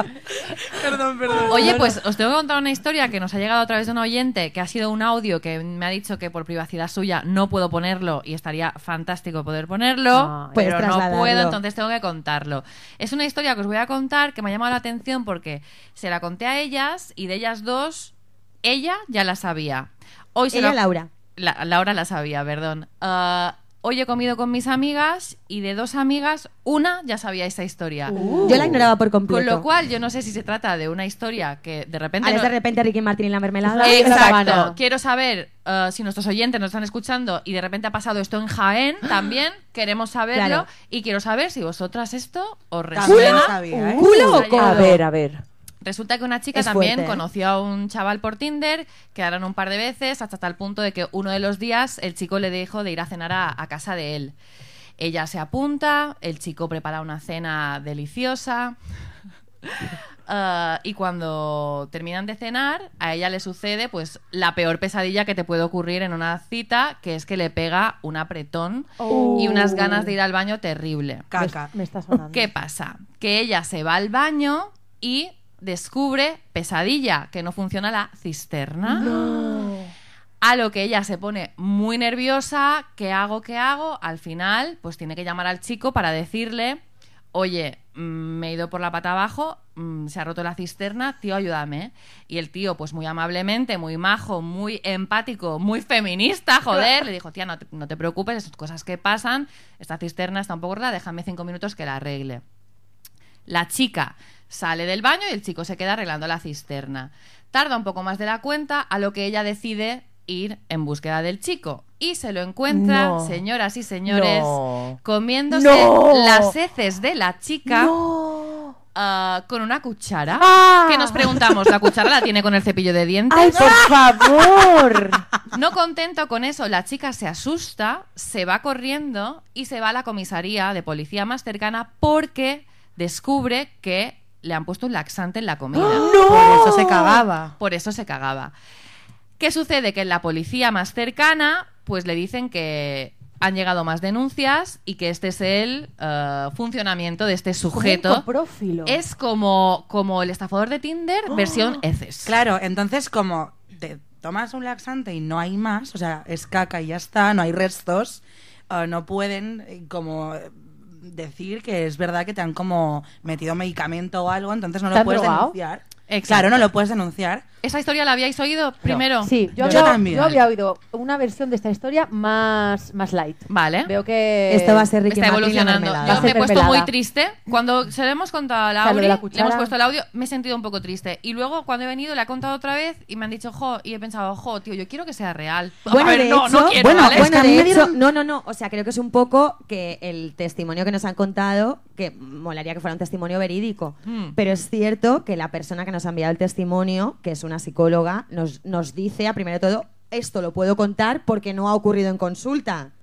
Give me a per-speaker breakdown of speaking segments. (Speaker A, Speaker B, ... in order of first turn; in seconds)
Speaker A: 0.5-1.9, 42.9-44.1, 71.3-71.7, 123.5-123.9, 135.8-137.5, 152.2-167.4, 169.5-170.4, 186.8-187.4
Speaker B: 1.5-20.8, 21.4-28.1, 29.3-32.5, 33.8-45.0, 45.8-54.3, 55.0-58.8, 59.6-71.3, 72.3-79.1, 80.4-86.8, 87.3-102.4, 103.5-117.9, 118.9-123.8, 125.5-136.1, 137.6-138.5, 139.4-148.2, 148.9-152.3, 166.1-166.7, 167.6-169.8, 173.5-173.9, 175.1-187.8, 194.1-194.3
Speaker C: 10.1-10.6, 28.1-28.7, 33.6-34.8, 69.0-70.1, 71.3-72.5, 147.7-149.0, 164.9-165.5, 169.2-174.9, 176.0-176.9, 178.8-179.7
Speaker D: 10.5-11.6, 20.5-21.1, 28.4-29.7, 32.2-34.4, 40.3-40.7, 43.2-45.0, 46.5-47.2, 174.5-176.3, 185.9-202.9
Speaker E: 28.2-28.8, 34.2-34.6, 43.0-45.4, 69.1-70.0, 79.0-79.9, 112.7-113.4, 114.0-115.0, 115.5-116.5, 117.7-118.7, 120.4-121.7, 123.3-125.2, 135.7-137.2, 151.3-151.8